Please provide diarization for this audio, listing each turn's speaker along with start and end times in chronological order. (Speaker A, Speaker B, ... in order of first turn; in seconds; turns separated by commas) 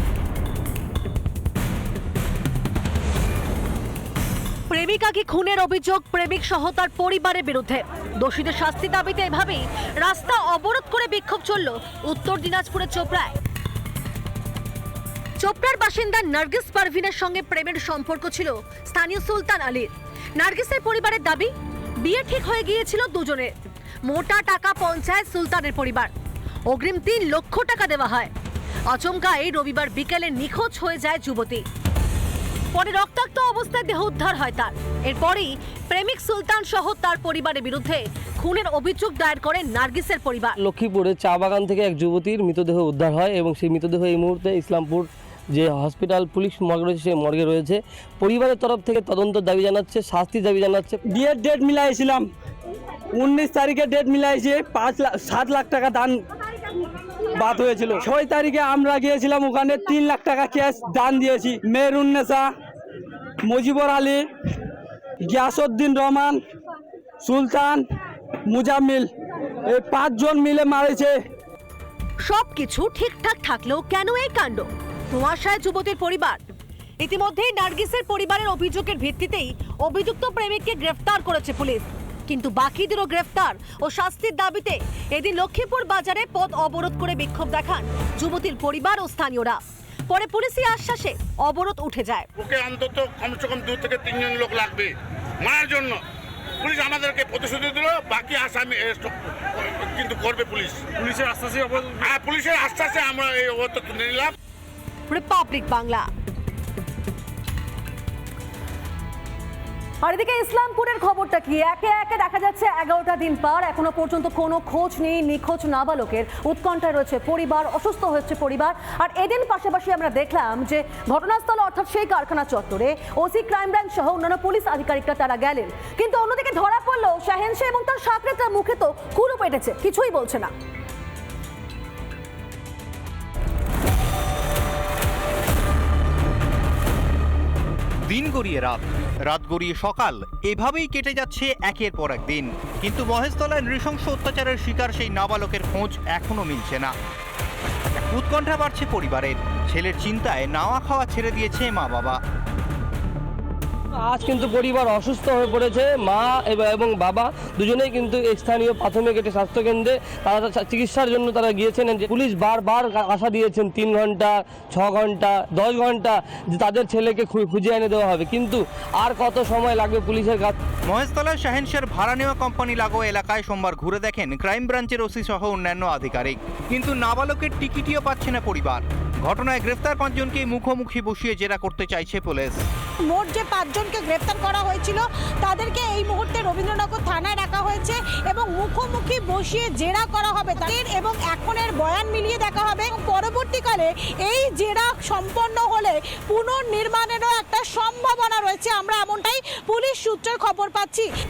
Speaker A: 4.7-13.3, Speaker A: 15.4-23.5, Speaker A: 24.0-26.1, Speaker A: 26.7-28.3, Speaker A: 28.9-31.6, Speaker A: 32.7-40.6, Speaker B: 40.6-51.0, Speaker C: 51.0-52.3, Speaker C: 53.2-56.2, Speaker C: 57.3-62.5, Speaker C: 63.5-64.2, Speaker C: 65.3-66.4, Speaker C: 67.2-67.8, Speaker C: 68.5-69.1, Speaker C: 69.7-71.2, Speaker A: 72.2-76.4, Speaker A: 77.0-92.3, Speaker D: 92.6-94.9, Speaker D: 95.5-96.0, Speaker D: 96.6-99.1, Speaker D: 100.0-100.8, Speaker D: 102.3-104.3, Speaker A: 105.1-106.1, Speaker A: 110.0-130.5, Speaker E: 138.1-146.9, Speaker E: 148.0-152.2, Speaker B: 154.0-170.6, Speaker E: 170.9-182.6, Speaker F: 183.0-201.1